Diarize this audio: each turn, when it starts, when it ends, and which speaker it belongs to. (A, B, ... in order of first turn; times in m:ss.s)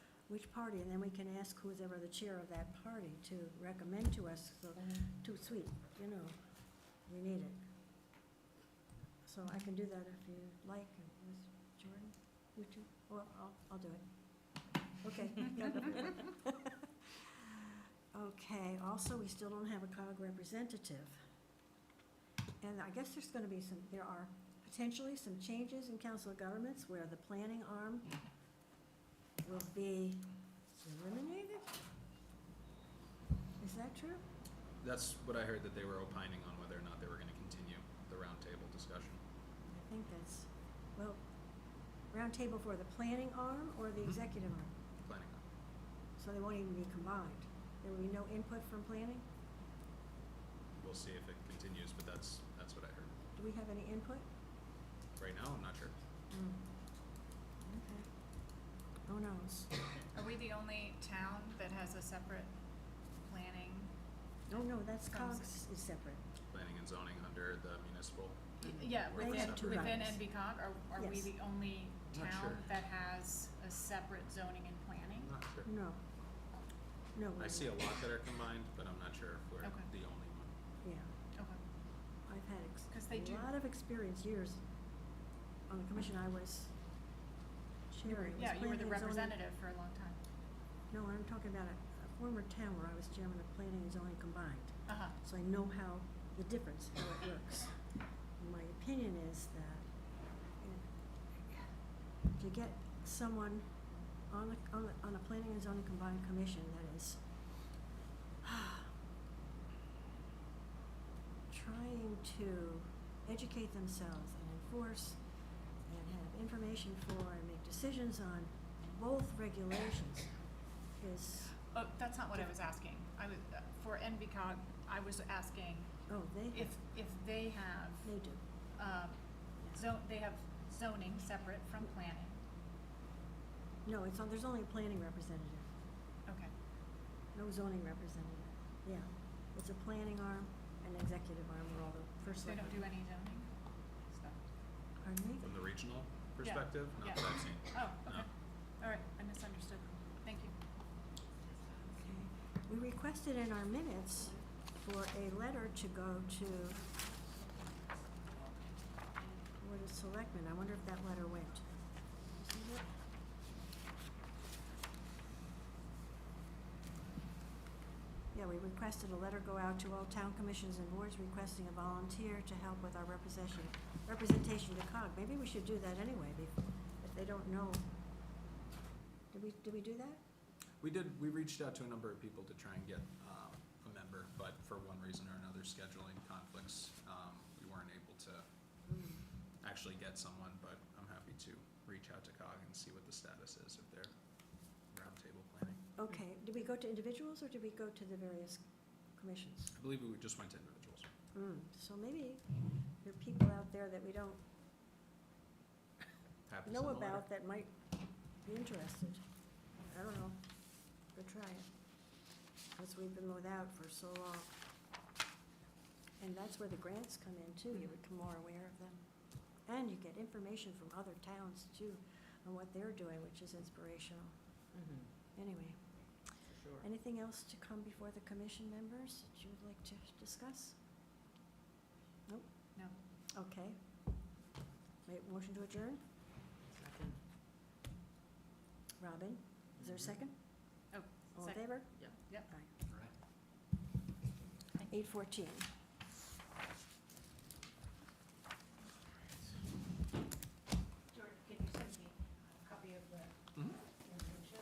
0:00.3-0:07.6 A
0:09.2-0:14.0 A
0:14.9-0:21.2 A
0:22.6-0:28.2 A
0:29.4-0:31.8 A
0:33.6-0:34.2 A
0:34.8-0:39.2 B
0:39.7-0:41.2 A
0:42.1-0:44.7 A
0:45.0-0:45.4 B
0:46.2-0:49.2 A
0:50.8-0:53.2 B
0:53.3-0:54.3 A
0:55.2-0:55.9 B
0:56.3-0:56.6 A
0:57.6-0:58.1 A
0:59.0-0:59.7 A
1:00.1-1:02.5 C
1:03.2-1:03.9 C
1:04.5-1:06.2 A
1:05.0-1:05.5 C
1:06.5-1:09.9 B
1:08.6-1:15.3 C
1:09.1-1:10.2 A
1:11.0-1:11.3 A
1:12.1-1:12.6 B
1:15.2-1:15.7 B
1:15.6-1:16.0 A
1:17.1-1:17.7 A
1:17.4-1:20.5 B
1:19.6-1:19.9 C
1:20.8-1:21.1 A
1:22.3-1:24.6 A
1:22.9-1:23.5 C
1:25.7-1:26.7 A
1:27.9-1:29.4 A
1:28.1-1:30.2 C
1:30.9-1:37.8 A
1:34.9-1:35.2 C
1:38.4-1:39.9 A
1:40.6-1:40.9 A
1:42.3-1:43.7 A
1:44.3-1:47.2 A
1:48.4-1:48.9 A
1:51.5-1:55.2 A
1:55.8-2:00.4 A
2:01.0-2:01.6 A
2:01.7-2:08.2 C
2:06.1-2:06.7 A
2:08.0-2:08.4 A
2:08.8-2:12.4 C
2:13.8-2:15.7 A
2:16.3-2:16.5 C
2:17.3-2:22.8 A
2:22.4-2:23.5 C
2:24.0-2:24.4 C
2:25.0-2:25.4 A
2:25.4-2:28.3 B
2:26.4-2:28.3 C
2:28.8-2:30.6 C
2:31.8-2:36.8 A
2:39.6-2:42.9 A
2:48.3-2:57.8 A
2:59.3-3:00.2 A
3:00.8-3:08.4 B
3:08.9-3:09.2 A
3:09.6-3:14.1 B
3:14.8-3:15.8 B
3:16.0-3:19.7 A
3:19.7-3:21.1 B
3:21.3-3:24.4 A
3:26.5-3:27.2 B
3:26.6-3:29.2 A
3:29.8-3:30.5 A
3:31.0-3:31.7 A
3:32.7-3:34.6 A
3:36.2-3:44.4 A
3:44.7-3:45.1 D
3:45.3-3:46.0 A
3:46.4-3:46.8 D
3:46.8-3:50.8 A
3:52.3-3:53.8 A
3:55.0-3:56.0 A
3:56.6-3:57.2 D
3:59.0-4:00.7 A
3:59.8-4:00.2 D
4:00.9-4:02.5 C
4:01.3-4:02.7 A
4:04.9-4:05.7 A
4:13.5-4:13.8 B